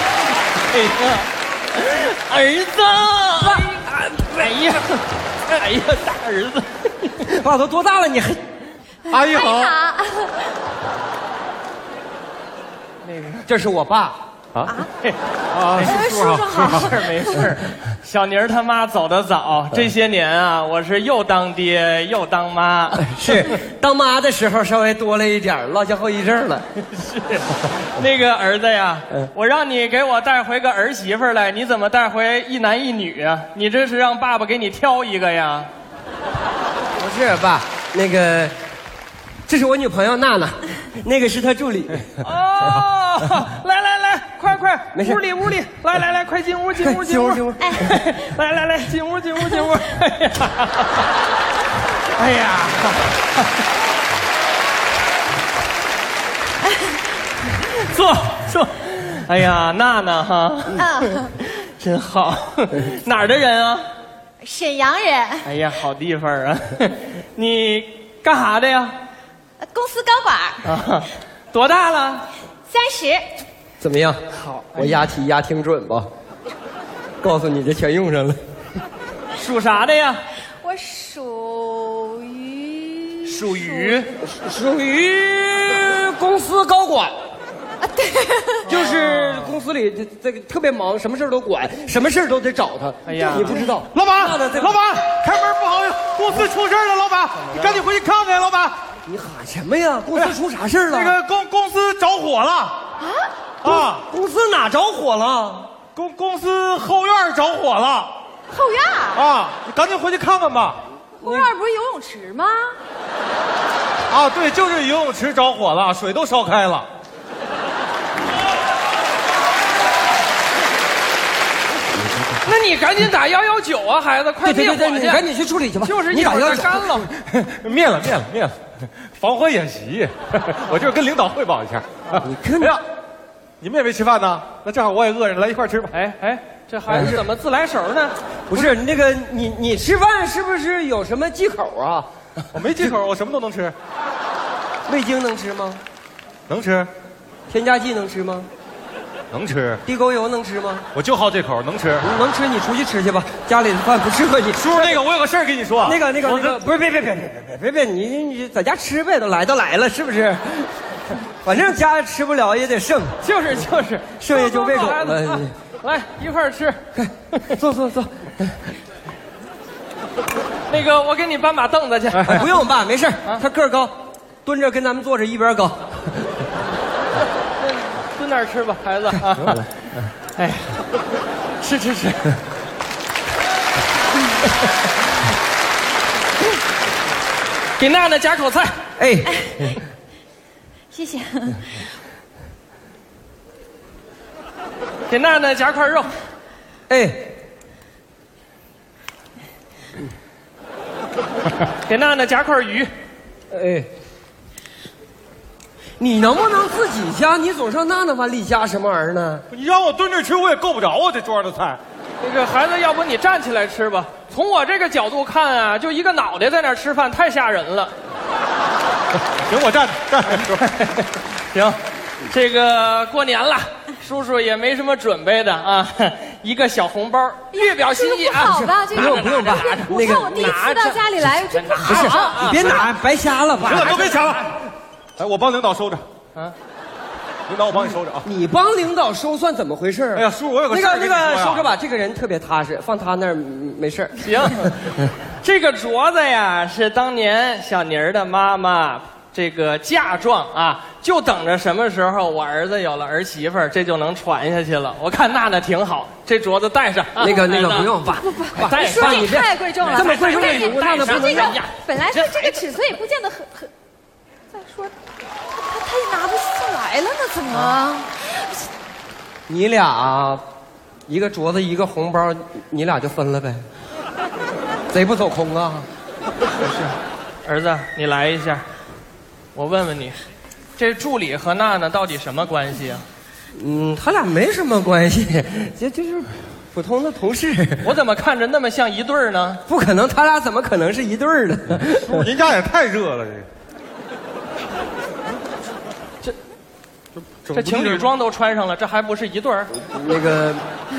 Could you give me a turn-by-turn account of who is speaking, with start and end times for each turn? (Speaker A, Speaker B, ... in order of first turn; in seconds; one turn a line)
Speaker A: 0.6-7.3
Speaker B: 3.4-4.3
Speaker B: 7.2-8.4
Speaker C: 9.1-10.6
Speaker D: 9.1-9.8
Speaker A: 13.0-13.5
Speaker B: 13.5-14.2
Speaker D: 14.5-14.8
Speaker C: 14.7-14.9
Speaker D: 15.5-17.0
Speaker A: 15.8-16.0
Speaker C: 15.8-17.4
Speaker A: 16.6-23.1
Speaker B: 23.0-26.7
Speaker A: 26.9-35.7
Speaker B: 37.0-38.6
Speaker B: 39.5-42.7
Speaker A: 42.2-51.1
Speaker B: 44.9-45.2
Speaker B: 46.8-47.9
Speaker A: 52.1-53.4
Speaker A: 57.5-63.9
Speaker C: 60.8-61.3
Speaker C: 64.4-65.5
Speaker A: 65.5-69.0
Speaker C: 69.6-70.7
Speaker A: 70.6-72.3
Speaker C: 72.7-73.3
Speaker B: 73.8-76.1
Speaker A: 74.4-75.1
Speaker B: 77.2-78.4
Speaker A: 79.3-80.2
Speaker C: 80.6-84.1
Speaker A: 83.2-84.1
Speaker B: 84.1-87.2
Speaker C: 87.8-88.7
Speaker A: 88.7-89.6
Speaker B: 88.7-94.8
Speaker A: 93.1-93.6
Speaker D: 93.9-98.8
Speaker A: 97.5-97.8
Speaker B: 99.1-101.2
Speaker D: 100.9-102.8
Speaker C: 103.0-103.3
Speaker D: 103.6-104.0
Speaker B: 103.7-105.7
Speaker D: 106.0-108.1
Speaker C: 108.5-109.2
Speaker D: 109.1-110.8
Speaker C: 111.2-112.8
Speaker B: 111.2-111.5
Speaker D: 114.1-116.9
Speaker B: 121.8-122.5
Speaker A: 122.5-125.2
Speaker B: 124.4-127.1
Speaker A: 125.8-127.1
Speaker D: 127.2-132.8
Speaker B: 132.2-132.8
Speaker D: 133.6-135.9
Speaker A: 135.9-138.2
Speaker B: 136.9-137.2
Speaker B: 138.5-142.1
Speaker D: 142.5-143.8
Speaker B: 144.9-145.8
Speaker D: 146.5-146.9
Speaker B: 147.5-148.5
Speaker D: 149.3-149.8
Speaker B: 149.8-150.9
Speaker D: 150.9-152.1
Speaker B: 152.0-155.0
Speaker D: 154.6-156.6
Speaker B: 155.8-163.2
Speaker A: 163.2-166.8
Speaker B: 164.2-165.6
Speaker B: 166.9-168.7
Speaker A: 167.3-167.6
Speaker A: 170.7-172.5
Speaker B: 172.3-176.5
Speaker A: 177.6-179.6
Speaker B: 179.1-179.7
Speaker A: 180.4-180.8
Speaker A: 181.6-182.3
Speaker A: 187.8-188.8
Speaker B: 189.0-189.8
Speaker C: 190.9-191.8
Speaker A: 195.1-196.2
Speaker B: 196.9-197.3
Speaker A: 201.7-202.9
Speaker B: 203.5-203.9
Speaker B: 206.0-209.4
Speaker D: 209.5-211.8
Speaker A: 212.2-217.9
Speaker D: 219.3-220.6
Speaker A: 220.5-232.9
Speaker C: 227.5-232.8
Speaker B: 228.5-230.4
Speaker B: 231.8-234.2
Speaker D: 233.6-234.6
Speaker A: 233.9-234.3
Speaker D: 235.2-236.0
Speaker D: 237.5-238.3
Speaker B: 237.9-244.7
Speaker D: 240.2-241.7
Speaker A: 244.2-244.8
Speaker A: 245.3-257.9
Speaker B: 257.2-261.6
Speaker C: 258.2-263.7
Speaker A: 258.6-262.7
Speaker C: 264.5-264.9
Speaker C: 265.5-268.7
Speaker A: 267.5-267.8
Speaker B: 269.5-270.4
Speaker B: 271.1-273.7
Speaker B: 274.9-275.9
Speaker A: 276.6-278.7
Speaker A: 279.5-280.2
Speaker A: 280.8-283.1
Speaker B: 283.5-288.0
Speaker A: 287.8-289.6
Speaker B: 289.7-292.3
Speaker D: 291.8-293.5
Speaker D: 297.2-298.1
Speaker A: 297.5-299.7
Speaker B: 299.8-300.6